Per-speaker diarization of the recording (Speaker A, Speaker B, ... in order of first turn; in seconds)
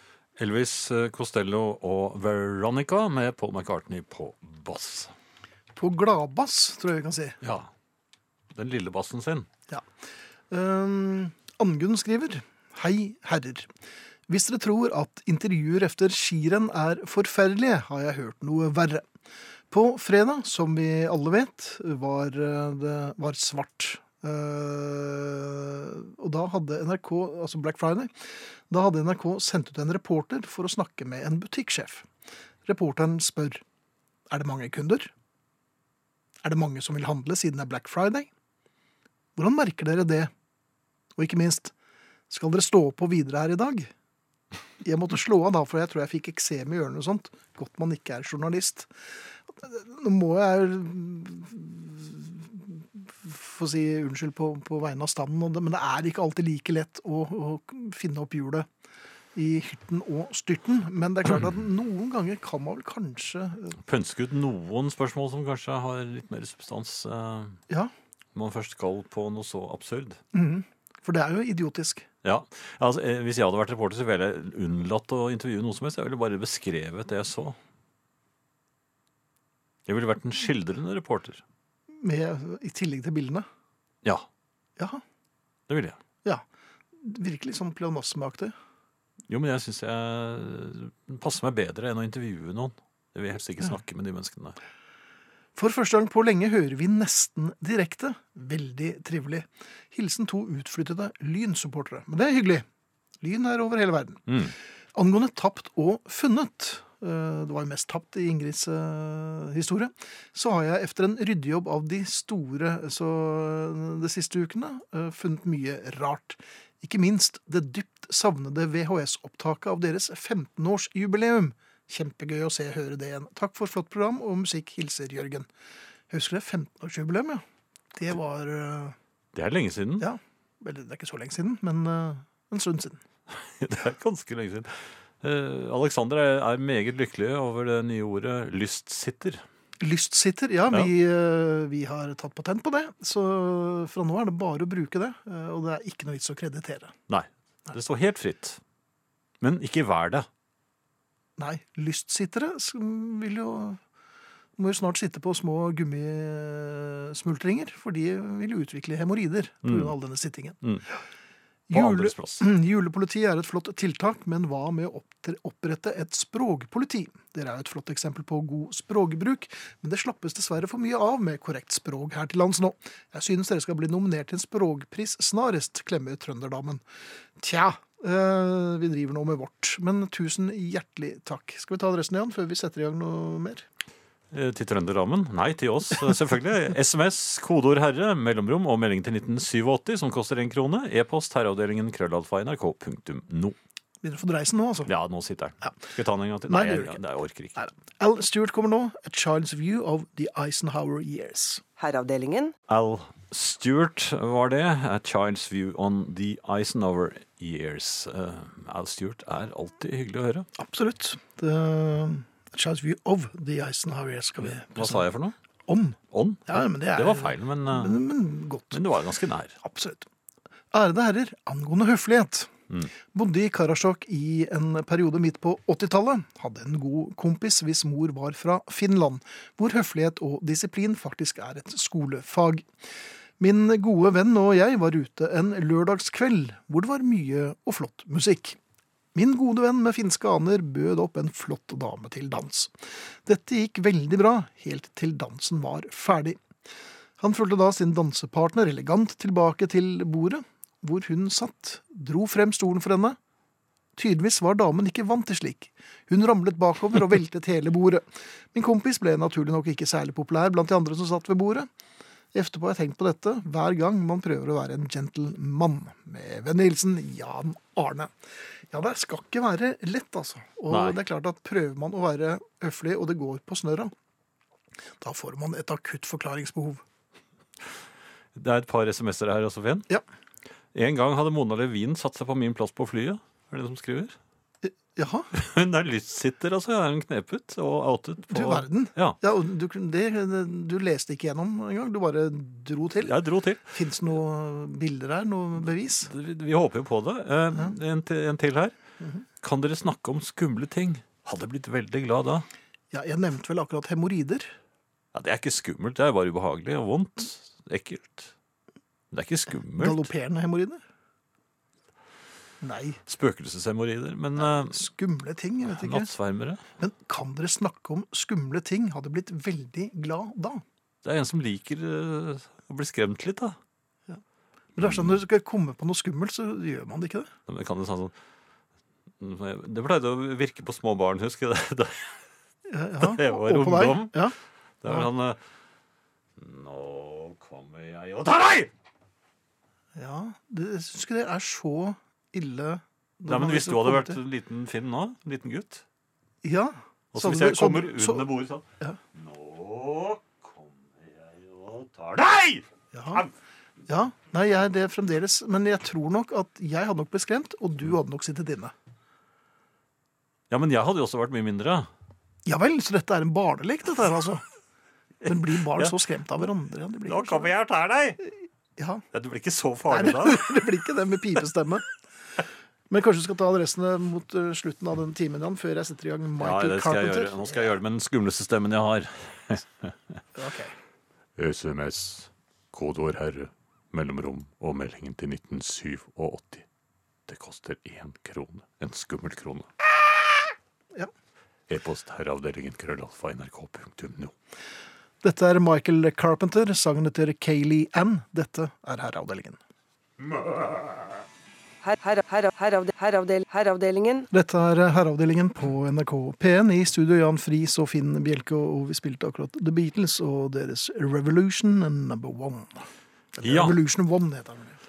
Speaker A: 0.4-5.1, 7.4-7.7, 8.5-9.5, 63.8-67.6, 68.3-70.2, 72.2-77.6, 79.9-81.4, 85.7-86.0, 89.3-94.5, 104.3-104.5, 129.3-130.1, 133.3-139.4, 147.1-148.6, 149.4-150.3, 159.6-159.9, 161.7-162.4, 184.3-193.6, 194.9-197.6, 202.7-210.4, 214.4-215.3, 216.1-218.0, 218.7-219.6, 270.7-271.0, 278.3-279.9, 280.7-284.1, 285.3-289.2, 293.0-293.8, 296.1-298.7, 299.4-302.5, 305.1-308.3, 309.1-310.1, 313.1-314.8, 315.6-316.6, 321.0-323.6, 324.8-325.1, 327.5-328.1, 329.2-332.2, 333.0-335.4, 336.4-338.7, 343.2-345.8, 347.1-353.3, 360.5-361.9, 365.2-365.9, 367.1-368.2, 369.1-370.5, 376.4-380.2, 381.4-386.6, 387.3-389.7, 391.7-394.3, 413.4-413.8
Speaker B: 5.7-7.4, 10.5-13.7, 14.3-19.1, 19.7-32.1, 32.6-33.6, 34.3-35.1, 36.4-38.3, 39.4-40.3, 41.1-41.7, 42.3-43.9, 44.8-48.9, 49.5-58.7, 59.3-63.8, 70.3-72.0, 81.9-83.5, 84.8-85.0, 87.0-88.5, 95.5-102.7, 103.2-104.3, 104.9-125.5, 126.1-127.4, 127.9-128.9, 130.0-133.0, 139.8-146.9, 151.4-153.8, 154.6-160.6, 161.7-176.8, 177.4-183.7, 194.0-194.9, 196.5-197.0, 197.6-201.6, 210.6-215.0, 215.7-218.8, 219.6-220.1, 220.7-222.5, 223.1-232.7, 233.4-238.6, 239.1-246.4, 247.2-253.2, 253.9-261.7, 262.3-268.1, 268.7-273.9, 275.0-276.8, 284.6-285.3, 288.3-293.1, 293.7-296.1, 302.9-304.5, 309.7-310.8, 312.6-313.0, 314.4-316.1, 316.8-320.6, 324.7-327.3, 332.7-335.1, 339.9-344.2, 346.4-349.0, 352.9-353.2, 353.9-358.7, 362.4-364.4, 365.2-367.5, 368.8-369.0, 369.9-371.9, 372.9-377.6, 380.3-380.7, 395.2-399.6, 404.3-414.8
Speaker C: 201.8-202.5, 401.8-404.3